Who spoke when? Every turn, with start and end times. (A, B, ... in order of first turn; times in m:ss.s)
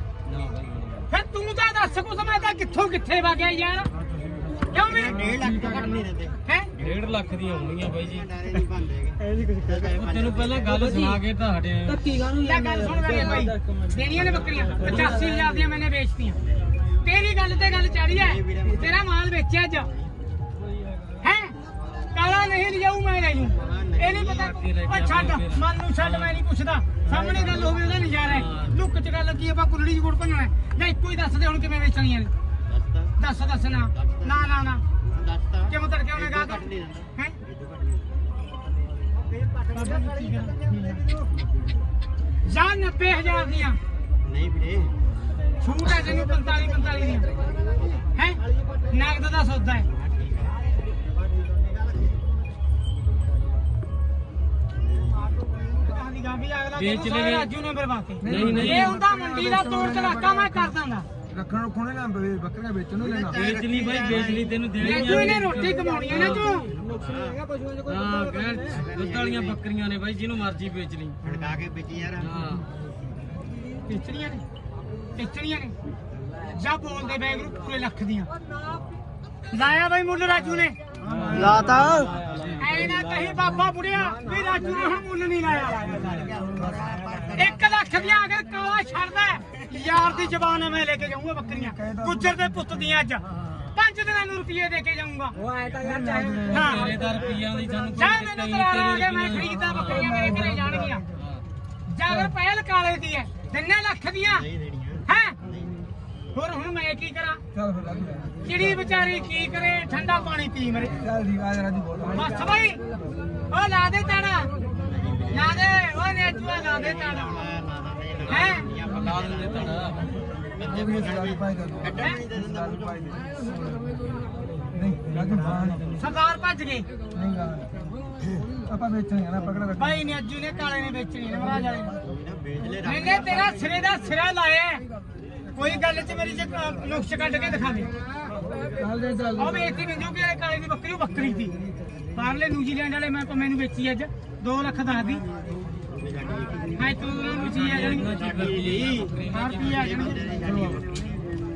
0:00.3-0:01.0 A
0:01.1-0:03.9 B
0:04.7-0:05.4 B
0:04.7-0:07.0 C
0:06.4-0:06.7 B
0:06.8-0:08.3 A
0:07.8-0:10.8 C
0:09.2-0:09.8 D
0:09.8-0:12.0 A
0:10.7-0:11.2 D
0:11.9-0:14.0 D
0:12.3-0:16.4 B
0:15.0-0:15.5 D
0:17.0-0:19.9 B
0:18.1-0:19.0 C
0:21.2-0:21.6 B
0:22.1-0:32.3 B
0:23.5-0:24.5 C
0:24.4-0:26.4 A
0:27.1-0:27.8 C
0:28.2-0:28.7 A
0:32.7-0:33.2 C
0:33.2-0:34.8 B
0:33.9-0:34.4 C
0:35.0-0:38.1 C
0:35.7-0:37.4 B
0:39.3-0:41.4 C
0:39.7-0:40.6 B
0:42.4-0:43.8 B
0:44.2-0:45.0 C
0:45.6-0:47.3 B
0:47.4-0:48.0 C
0:48.1-0:49.9 B
0:48.5-0:48.8 C
0:49.9-0:50.7 C
0:51.4-0:52.0 C
0:55.0-0:55.6 C
0:55.8-1:01.1 B
0:56.8-0:57.5 A
0:58.2-1:00.6 E
0:58.2-0:58.9 A
1:01.3-1:03.3 E
1:03.0-1:04.6 C
1:03.3-1:06.5 A
1:04.8-1:06.7 B
1:05.0-1:08.8 D
1:06.7-1:07.4 C
1:07.9-1:11.2 A
1:08.7-1:09.6 C
1:11.2-1:12.3 C
1:12.2-1:12.7 A
1:13.9-1:14.4 B
1:15.2-1:15.8 B
1:16.5-1:18.3 B
1:19.5-1:20.8 B
1:21.1-1:23.4 A
1:21.1-1:22.6 C
1:21.8-1:22.0 D
1:22.6-1:25.8 B
1:24.0-1:27.3 D
1:25.8-1:27.8 C
1:27.3-1:35.4 B
1:31.7-1:32.2 E
1:35.4-1:37.6 D
1:35.8-1:36.4 E
1:36.5-1:36.9 B
1:36.5-1:40.2 A
1:37.9-1:41.0 B
1:40.1-1:40.8 D
1:41.2-1:41.4 A
1:41.9-1:44.5 B
1:44.3-1:45.8 C
1:45.1-1:45.4 B
1:46.3-1:47.4 B
1:47.6-1:48.4 E
1:48.4-1:51.0 B
1:51.0-1:52.3 E
1:52.1-1:52.8 B
1:53.5-1:54.5 B
1:54.8-1:55.7 C
1:55.3-1:57.4 B
1:56.5-1:59.9 C
1:58.3-1:58.7 B
1:58.8-2:00.0 A
2:00.5-2:03.7 C
2:00.7-2:01.9 E
2:02.6-2:03.0 E
2:04.8-2:05.9 E
2:06.0-2:06.9 B
2:07.2-2:07.7 E
2:08.7-2:09.8 E
2:09.8-2:12.0 B
2:12.0-2:13.8 C
2:12.8-2:14.8 B
2:15.6-2:17.9 B
2:18.8-2:19.4 E
2:19.3-2:21.5 B
2:22.1-2:25.2 B
2:25.9-2:31.3 C
2:26.8-2:28.1 B
2:27.3-2:29.9 A
2:29.3-2:30.4 B